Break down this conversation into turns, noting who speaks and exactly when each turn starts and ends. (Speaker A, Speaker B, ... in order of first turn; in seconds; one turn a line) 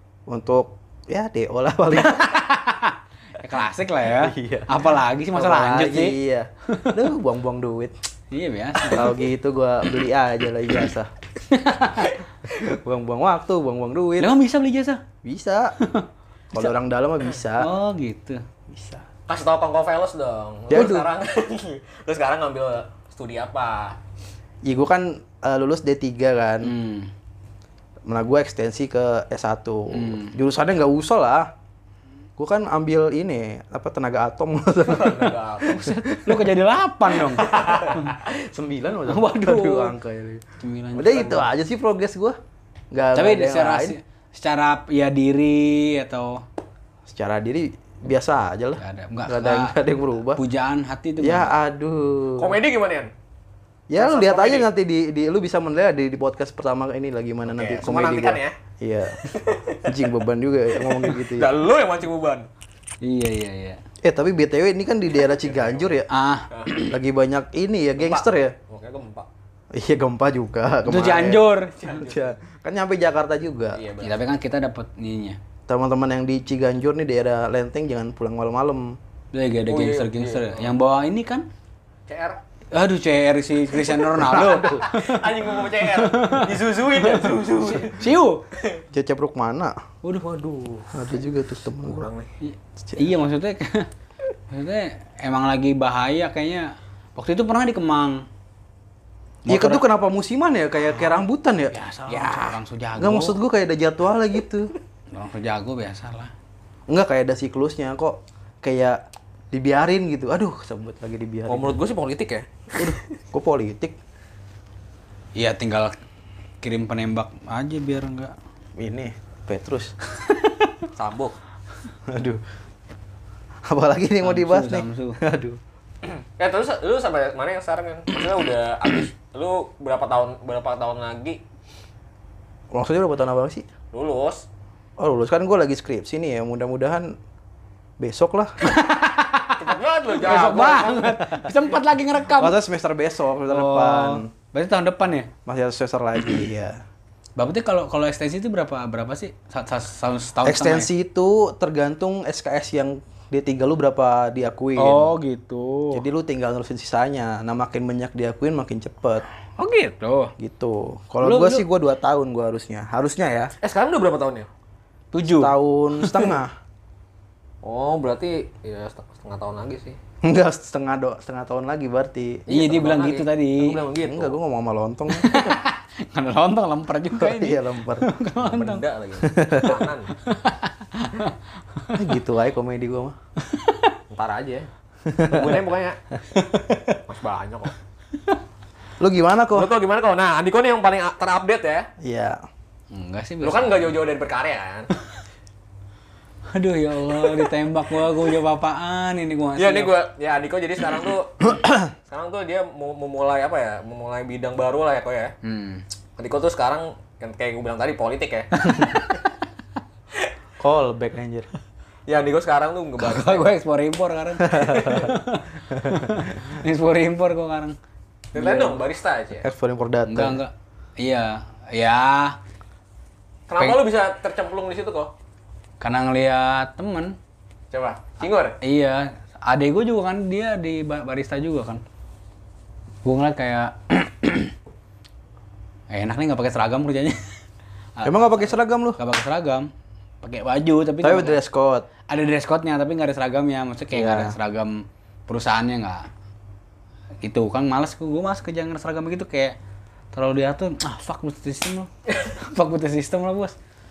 Speaker A: 0.3-2.4
Speaker B: 2.0-7.0
Speaker A: 4.1-7.9
Speaker B: 8.3-9.2
Speaker A: 8.9-11.1
Speaker B: 11.5-12.1
Speaker A: 12.5-14.3
Speaker B: 14.2-15.0
Speaker A: 15.2-15.7
Speaker B: 15.8-16.1
Speaker A: 16.5-17.7
Speaker B: 17.6-18.4
Speaker A: 18.7-19.0
Speaker C: 19.3-24.0
Speaker A: 20.7-21.1
Speaker A: 24.6-26.7
Speaker B: 26.6-27.1
Speaker A: 28.1-31.5
Speaker B: 29.9-30.3
Speaker A: 32.4-36.4
Speaker C: 34.8-35.9
Speaker B: 35.8-38.1
Speaker A: 37.3-42.4
Speaker C: 37.4-38.0
Speaker B: 39.1-39.9
Speaker B: 40.6-41.5
Speaker A: 42.9-44.0
Speaker B: 43.1-46.4
Speaker A: 47.0-50.4
Speaker B: 48.8-49.8
Speaker B: 50.3-51.5
Speaker A: 51.2-52.6
Speaker C: 52.4-53.1
Speaker A: 53.9-59.2
Speaker C: 54.0-54.7
Speaker C: 57.5-58.5
Speaker C: 59.2-60.0
Speaker A: 59.8-61.5
Speaker C: 60.8-62.5
Speaker B: 63.0-63.8
Speaker A: 64.0-66.1
Speaker C: 65.2-66.0
Speaker B: 66.1-66.9
Speaker C: 66.5-66.8
Speaker A: 66.8-68.5
Speaker C: 68.0-69.3
Speaker A: 69.7-73.8
Speaker B: 70.8-71.8
Speaker C: 71.7-72.3
Speaker C: 73.7-74.2
Speaker B: 74.0-75.4
Speaker A: 75.7-79.0
Speaker B: 79.3-81.5
Speaker C: 79.7-80.7
Speaker C: 82.1-82.4
Speaker B: 82.7-88.4
Speaker A: 84.1-84.8
Speaker C: 84.6-88.8
Speaker A: 88.9-89.8
Speaker B: 90.0-90.4
Speaker C: 90.2-90.9
Speaker A: 90.9-92.1
Speaker C: 91.8-92.3
Speaker B: 92.4-93.9
Speaker B: 94.5-98.2
Speaker B: 99.4-99.8
Speaker A: 99.5-104.7
Speaker B: 101.7-103.4
Speaker B: 105.1-106.3
Speaker A: 106.9-109.0
Speaker A: 109.5-111.8
Speaker C: 111.5-112.9
Speaker A: 112.8-114.0
Speaker B: 115.3-115.9
Speaker B: 116.6-118.3
Speaker A: 118.8-119.9
Speaker C: 120.9-121.3
Speaker A: 122.1-122.4
Speaker A: 123.7-125.6
Speaker B: 124.2-125.2
Speaker C: 126.1-131.4
Speaker A: 132.7-133.7
Speaker C: 133.9-134.4
Speaker A: 135.0-137.2
Speaker A: 138.0-138.7
Speaker B: 138.7-139.6
Speaker C: 139.6-141.2
Speaker B: 140.2-142.6
Speaker A: 142.3-144.3
Speaker B: 143.5-145.3
Speaker A: 145.4-146.8
Speaker B: 147.4-150.9
Speaker A: 150.4-155.1
Speaker B: 154.8-156.0
Speaker A: 155.9-159.2
Speaker B: 159.6-160.3
Speaker A: 160.4-163.5
Speaker B: 161.2-161.7
Speaker C: 163.6-164.5
Speaker B: 165.1-165.5
Speaker A: 165.2-166.5
Speaker C: 167.6-170.0
Speaker A: 170.2-172.4
Speaker C: 172.5-174.4
Speaker B: 172.5-173.8
Speaker A: 174.0-175.6
Speaker B: 175.1-178.8
Speaker A: 177.1-178.1
Speaker C: 178.4-180.1
Speaker A: 179.2-179.8
Speaker B: 180.2-182.0
Speaker A: 181.9-183.2
Speaker B: 183.6-183.9
Speaker C: 184.1-184.7
Speaker A: 185.1-185.6
Speaker C: 185.2-186.0
Speaker C: 187.0-187.7
Speaker A: 189.0-189.7
Speaker C: 189.5-191.9
Speaker A: 192.0-192.4
Speaker B: 192.9-193.9
Speaker C: 193.4-194.9
Speaker B: 196.5-199.9
Speaker C: 199.6-201.6
Speaker A: 201.6-201.8
Speaker C: 202.1-205.3
Speaker B: 205.4-205.8
Speaker C: 206.2-208.9
Speaker B: 208.6-209.2
Speaker A: 210.6-211.5
Speaker C: 212.1-213.5
Speaker B: 213.0-217.8
Speaker A: 214.4-215.1
Speaker C: 214.6-215.1
Speaker A: 215.7-216.2
Speaker C: 218.3-219.5
Speaker A: 218.3-218.8
Speaker A: 219.4-220.4
Speaker B: 220.1-222.4
Speaker C: 223.5-225.1
Speaker B: 225.8-227.2
Speaker C: 227.7-228.6
Speaker B: 228.6-231.8
Speaker B: 233.0-234.5
Speaker B: 235.9-237.2
Speaker B: 237.9-239.7
Speaker A: 238.0-239.0
Speaker B: 240.2-241.4
Speaker A: 241.0-241.9
Speaker B: 242.1-246.1
Speaker A: 243.9-244.3
Speaker B: 247.2-249.6
Speaker B: 250.1-253.6